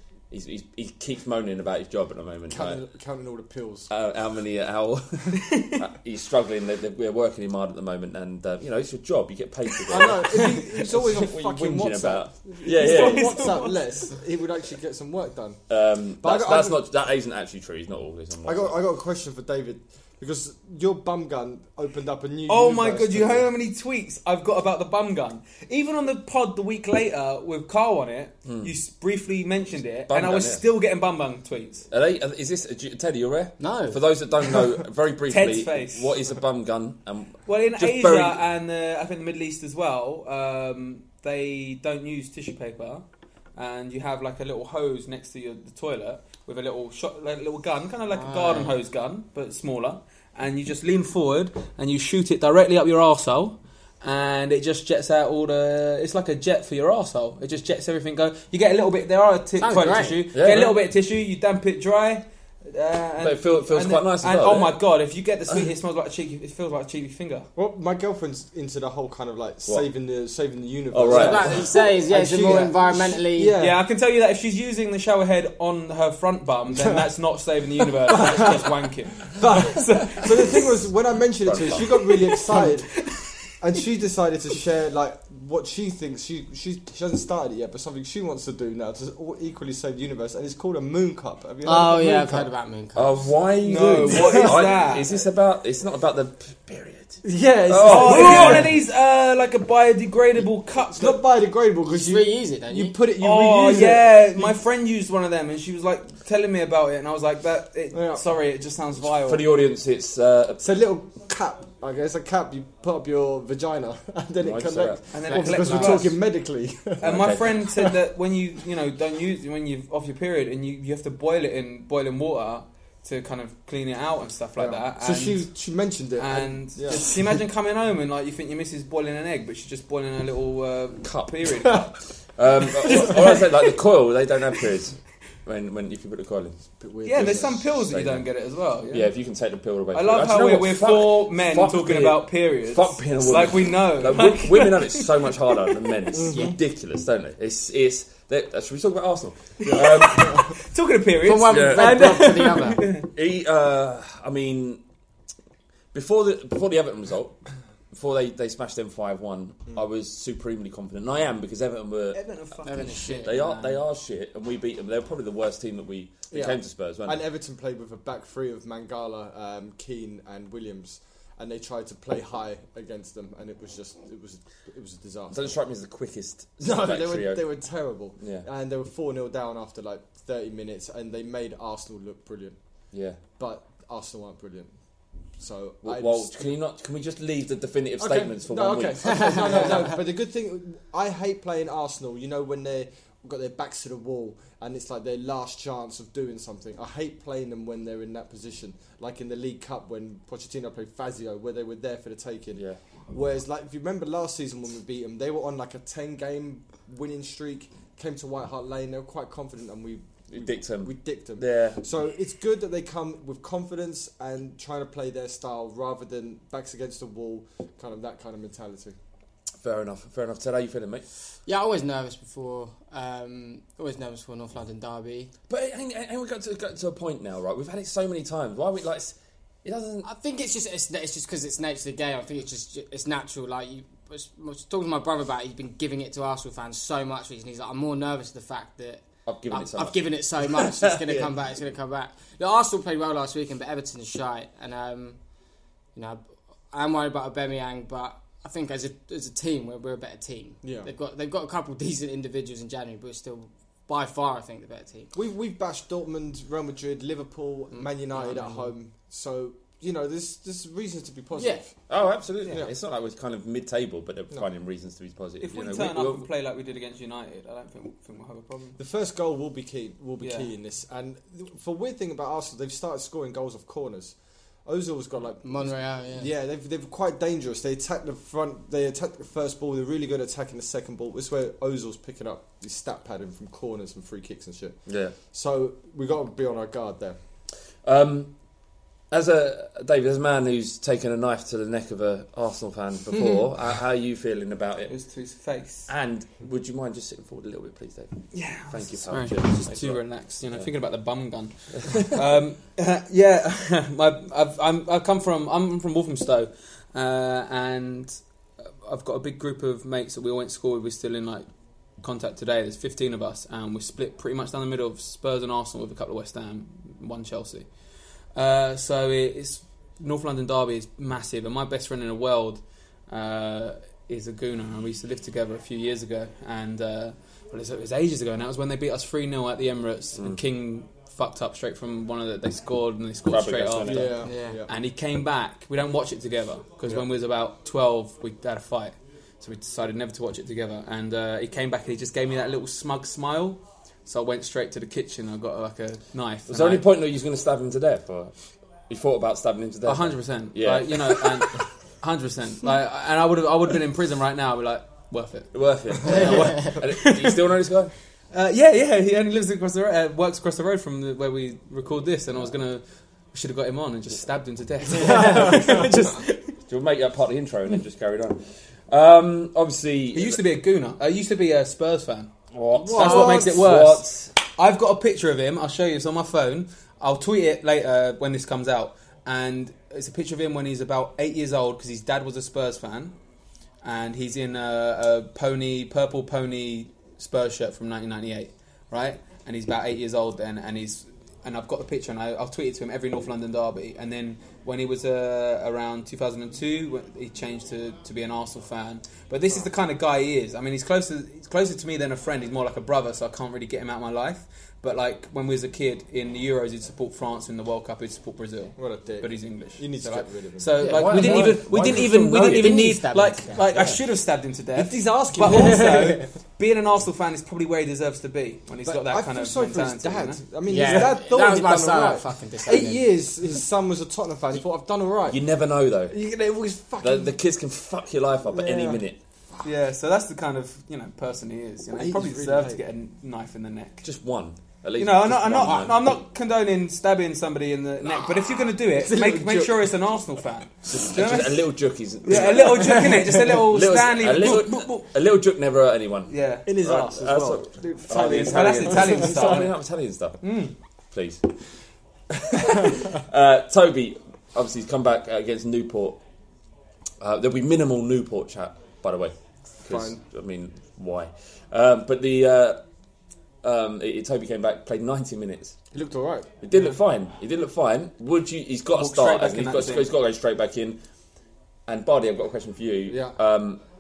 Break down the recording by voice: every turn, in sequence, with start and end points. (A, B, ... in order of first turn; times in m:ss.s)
0:00.3-0:02.8 A
0:02.5-0:03.9 B
0:03.9-0:13.6 A
0:09.9-0:15.6 B
0:12.7-0:14.1 C
0:15.7-0:18.7 A
0:16.2-0:16.8 B
0:18.4-0:23.5 B
0:22.5-0:31.9 C
0:28.4-0:28.7 A
0:30.1-0:30.6 A
0:31.9-0:38.4 A
0:33.6-0:34.0 D
0:35.3-0:36.1 C
0:37.4-1:07.5 C
0:48.1-0:48.8 D
0:59.6-1:00.3 D
1:00.3-1:00.8 A
1:03.2-1:04.8 A
1:07.6-1:13.8 B
1:10.9-1:11.7 A
1:11.1-1:13.6 D
1:13.6-1:20.7 C
1:18.0-1:18.7 B
1:19.3-1:23.1 B
1:21.4-1:21.8 A
1:22.2-1:23.1 C
1:23.6-1:32.5 B
1:31.6-1:33.2 D
1:32.9-1:38.7 A
1:33.6-1:35.1 C
1:34.0-1:34.8 B
1:37.2-1:38.8 B
1:37.8-1:41.2 C
1:40.9-1:44.6 B
1:41.8-1:43.0 D
1:43.1-1:49.5 C
1:47.9-1:48.2 B
1:49.1-1:50.6 A
1:50.6-1:57.9 B
1:54.4-1:55.0 A
1:55.1-1:56.1 C
1:55.3-1:55.8 D
1:55.6-1:56.0 A
1:57.0-1:57.6 A
1:57.0-2:05.5 C
2:04.6-2:07.2 B
2:06.2-2:11.9 C
2:11.0-2:11.8 A
2:12.3-2:16.6 A
2:12.8-2:13.7 C
2:16.8-2:17.7 B
2:17.0-2:19.1 C
2:17.2-2:18.2 A
2:18.9-2:30.6 A
2:19.9-2:25.6 C
2:29.6-2:33.1 C
2:29.7-2:30.4 B
2:31.2-2:32.9 D
2:31.5-2:32.0 A
2:33.0-2:34.8 A
2:35.9-2:47.2 A
2:42.1-2:43.4 C
2:42.6-2:43.8 D
2:46.3-2:55.5 B
2:55.3-2:57.4 A
2:56.6-3:02.6 B
2:58.2-2:58.4 A
3:02.9-3:03.2 A
3:03.4-3:04.7 B
3:05.4-3:06.4 B
3:05.8-3:09.8 A
3:08.0-3:39.0 B
3:30.3-3:31.8 A
3:39.6-3:41.0 A
3:41.4-3:45.3 D
3:45.5-3:50.1 A
3:50.0-4:05.2 D
3:59.2-4:01.0 A
4:05.9-4:15.1 D
4:10.6-4:10.9 B
4:15.1-4:21.7 B
4:17.8-4:18.7 D
4:21.4-4:21.6 D
4:21.9-4:26.3 A
4:25.4-4:28.8 C
4:28.8-4:44.8 B
4:30.2-4:30.5 C
4:35.4-4:36.3 D
4:44.8-4:45.1 A
4:45.3-4:47.2 B
4:47.8-4:48.3 A
4:49.1-4:54.9 A
4:54.9-4:55.9 C
4:55.9-5:00.7 A
4:58.3-5:08.2 C
5:01.7-5:02.2 A
5:08.8-5:11.4 C
5:12.0-5:17.7 C
5:18.3-5:34.1 C
5:33.3-5:34.2 A
5:33.8-5:34.7 B
5:34.2-5:34.6 D
5:34.6-5:46.8 C
5:46.5-5:48.3 A
5:48.9-5:51.6 A
5:49.8-5:57.4 C
5:55.5-5:57.9 A
5:58.3-6:06.5 C
6:05.0-6:05.5 D
6:05.2-6:05.6 B
6:06.7-6:10.4 A
6:10.1-6:12.3 C
6:12.5-6:14.3 A
6:12.7-6:13.6 B
6:12.9-6:23.2 C
6:23.8-7:01.0 C
6:48.8-6:50.7 B
6:50.8-6:53.7 D
6:50.8-6:52.8 A
6:53.7-6:54.0 A
6:54.7-6:56.2 B
6:55.5-6:56.2 D
6:58.8-7:05.4 B
7:00.6-7:03.1 D
7:05.3-7:06.2 A
7:06.1-7:07.4 B
7:07.0-7:09.2 A
7:08.4-7:09.0 B
7:09.6-7:14.0 C
7:11.9-7:12.8 B
7:14.0-7:16.2 A
7:15.0-7:21.7 C
7:18.9-7:19.9 B
7:20.9-7:30.4 A
7:22.2-7:25.1 C
7:26.3-7:26.8 C
7:26.6-7:29.7 B
7:28.1-7:29.8 C
7:30.4-7:30.7 C
7:31.1-7:31.5 A
7:32.4-7:36.2 A
7:37.2-7:42.8 A
7:39.8-7:40.2 B
7:43.6-7:45.8 A
7:45.9-7:46.5 B
7:46.6-7:51.0 A
7:48.9-7:50.1 C
7:51.9-7:53.8 A
7:53.0-7:53.4 B